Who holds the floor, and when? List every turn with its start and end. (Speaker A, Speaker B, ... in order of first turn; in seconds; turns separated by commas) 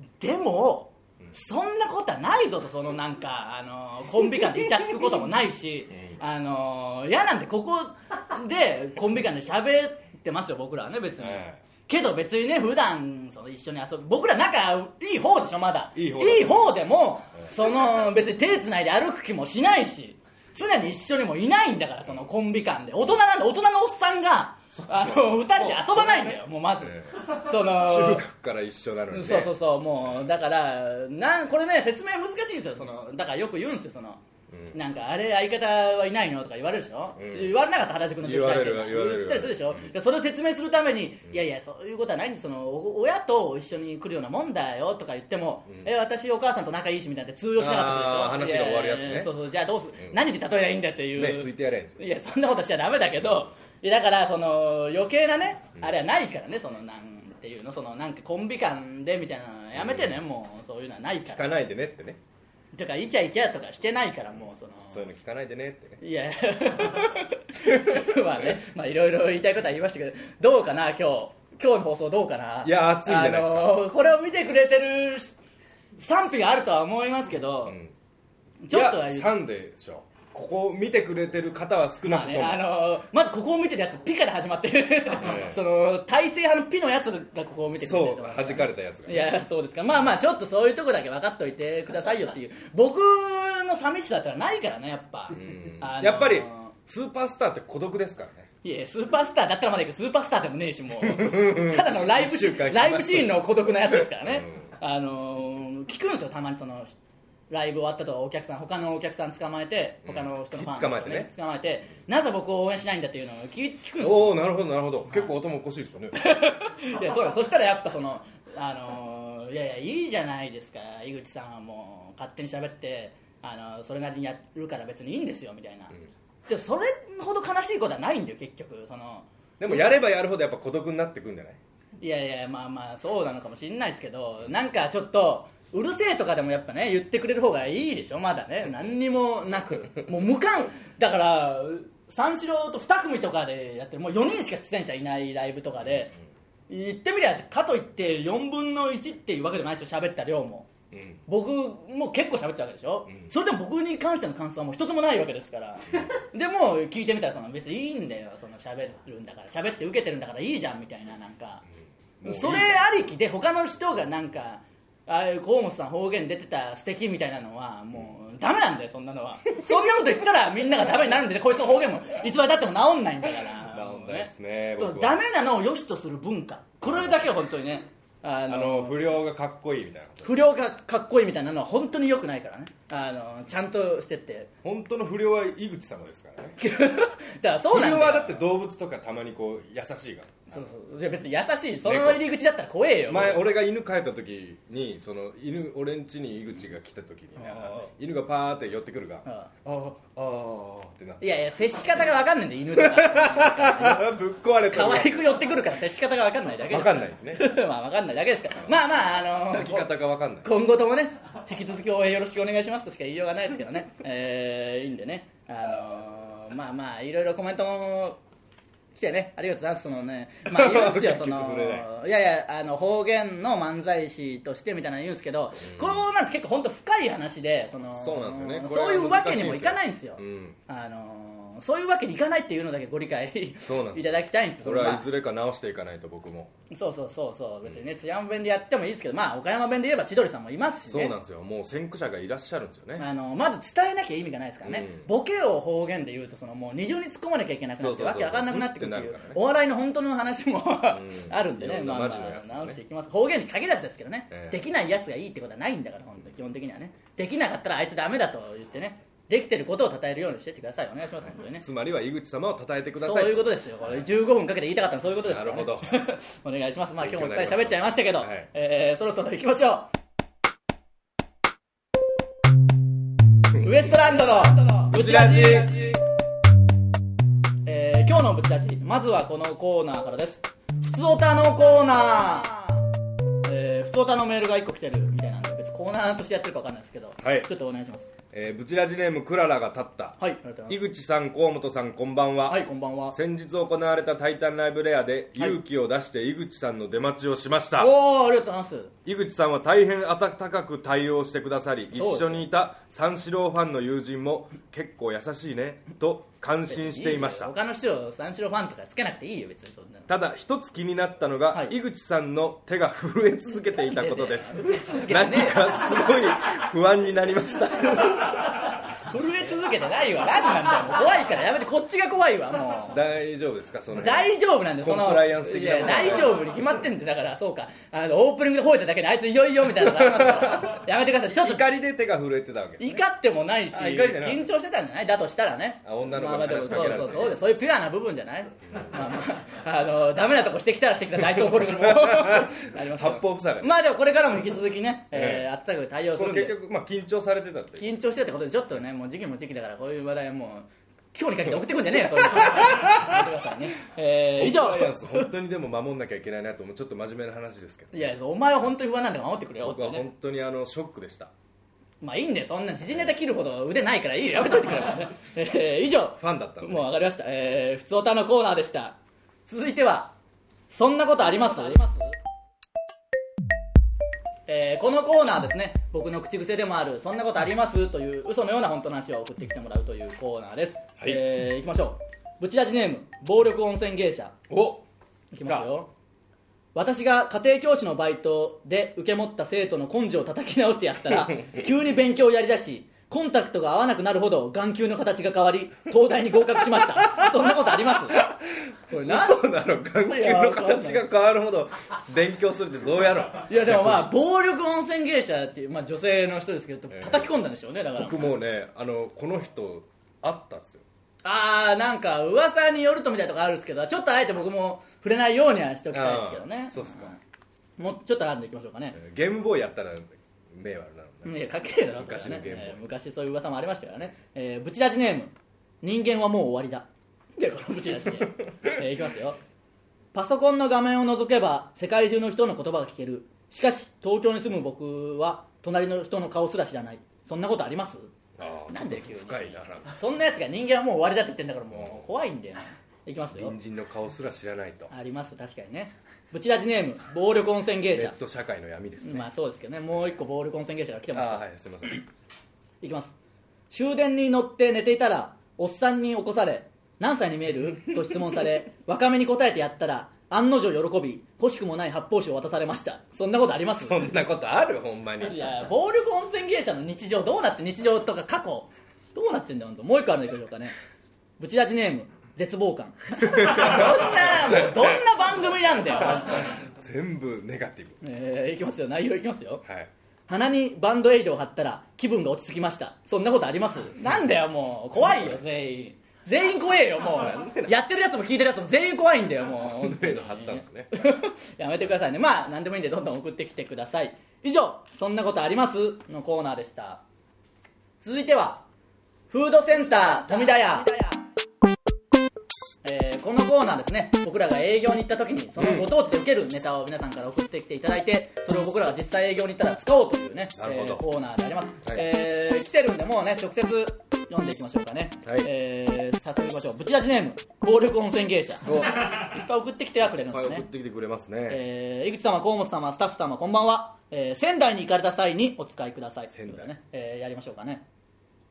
Speaker A: 0.2-28.2, Speaker B: 5.9-6.2, Speaker B: 11.2-11.6, Speaker B: 15.9-16.9, Speaker B: 24.8-30.3, Speaker A: 29.1-34.2, Speaker B: 34.5-34.8, Speaker A: 34.7-61.7, Speaker B: 37.2-37.5, Speaker B: 38.2-39.9, Speaker B: 47.6-49.3, Speaker B: 51.1-52.0, Speaker B: 59.7-60.2, Speaker B: 61.2-62.2, Speaker A: 62.7-65.0, Speaker B: 64.9-66.0, Speaker A: 66.0-75.3, Speaker B: 67.6-68.5, Speaker B: 72.6-73.8, Speaker A: 76.0-77.8, Speaker B: 77.7-77.9, Speaker A: 78.6-79.3, Speaker B: 78.7-82.6, Speaker A: 82.0-96.7, Speaker B: 85.2-85.6, Speaker B: 87.8-89.3, Speaker B: 95.3-98.5, Speaker A: 98.6-106.9, Speaker B: 101.0-104.7, Speaker A: 107.5-114.4, Speaker B: 110.0-111.3, Speaker B: 114.0-116.2, Speaker A: 116.2-125.9, Speaker A: 126.5-129.3, Speaker B: 129.6-131.6, Speaker A: 132.0-146.1, Speaker A: 146.7-150.7, Speaker B: 150.9-151.2, Speaker A: 151.3-161.6, Speaker B: 162.2-162.8, Speaker A: 162.2-179.1, Speaker B: 173.7-175.2, Speaker B: 176.8-177.2, Speaker B: 178.5-180.4, Speaker A: 180.2-184.5, Speaker B: 184.6-186.6, Speaker A: 186.6-188.4, Speaker B: 187.7-190.6, Speaker A: 190.5-193.4, Speaker B: 191.8-192.2, Speaker B: 193.1-201.4, Speaker A: 197.4-197.9, Speaker A: 201.2-204.2, Speaker B: 202.8-205.4, Speaker A: 204.7-218.2, Speaker B: 206.7-207.5, Speaker B: 209.4-210.5, Speaker A: 218.9-235.0, Speaker B: 220.4-221.9, Speaker B: 225.6-226.0, Speaker B: 227.9-230.6, Speaker B: 233.7-236.5, Speaker A: 236.7-241.1, Speaker B: 240.9-243.1, Speaker A: 243.0-261.6, Speaker B: 244.6-245.1, Speaker B: 247.8-249.4, Speaker B: 250.9-252.8, Speaker B: 254.3-254.6, Speaker B: 261.6-263.5, Speaker A: 263.0-269.9, Speaker B: 265.2-266.0, Speaker B: 267.0-268.5, Speaker B: 273.5-274.1, Speaker A: 273.6-275.9, Speaker B: 274.9-276.0, Speaker A: 277.6-282.8, Speaker A: 283.4-288.1, Speaker B: 287.2-287.5, Speaker B: 288.3-297.9, Speaker A: 290.2-290.8, Speaker A: 292.5-293.2, Speaker A: 297.8-298.9, Speaker B: 299.0-307.5, Speaker A: 301.9-302.5, Speaker A: 306.7-310.1, Speaker B: 310.1-318.5, Speaker A: 313.8-315.9, Speaker A: 318.2-323.0, Speaker B: 322.9-326.5, Speaker A: 323.9-331.6, Speaker B: 329.8-333.0, Speaker A: 332.8-346.5, Speaker B: 333.7-334.4, Speaker B: 335.8-337.4, Speaker B: 341.3-343.7, Speaker B: 345.1-345.5, Speaker B: 346.1-347.9, Speaker A: 347.8-355.2, Speaker B: 352.2-353.2, Speaker B: 354.4-358.1, Speaker A: 357.9-360.0, Speaker B: 359.6-361.3, Speaker A: 362.0-370.1, Speaker B: 366.2-366.9, Speaker A: 370.7-372.1, Speaker A: 374.5-384.3, Speaker B: 384.5-384.8, Speaker A: 385.3-385.9, Speaker A: 386.7-398.2, Speaker B: 397.0-397.6, Speaker B: 398.1-404.1, Speaker A: 398.9-399.4, Speaker A: 400.0-401.0, Speaker A: 403.5-408.3, Speaker B: 406.9-407.3, Speaker B: 407.9-410.8, Speaker A: 411.2-417.2, Speaker B: 415.9-417.1, Speaker A: 417.8-419.0, Speaker B: 418.9-422.8, Speaker A: 421.2-425.3, Speaker A: 425.8-429.4, Speaker A: 430.1-438.1, Speaker B: 438.4-439.9, Speaker A: 438.7-443.5, Speaker B: 441.7-442.0, Speaker B: 443.3-444.9, Speaker A: 444.9-448.1, Speaker B: 447.9-449.3, Speaker A: 449.0-451.4, Speaker B: 451.1-452.0, Speaker A: 452.8-453.1, Speaker A: 453.7-464.1, Speaker B: 463.7-465.6, Speaker A: 465.2-470.7, Speaker A: 471.4-476.6, Speaker B: 473.3-474.8, Speaker B: 476.1-478.0, Speaker A: 478.0-479.6, Speaker B: 479.6-479.9, Speaker A: 480.3-497.0, Speaker B: 487.1-487.8, Speaker B: 489.6-490.9, Speaker A: 498.0-498.6, Speaker A: 499.3-501.2, Speaker A: 502.8-520.7, Speaker B: 505.6-505.9, Speaker B: 510.6-511.0, Speaker B: 518.6-519.1, Speaker B: 520.1-521.6, Speaker A: 521.5-527.8, Speaker B: 526.3-526.7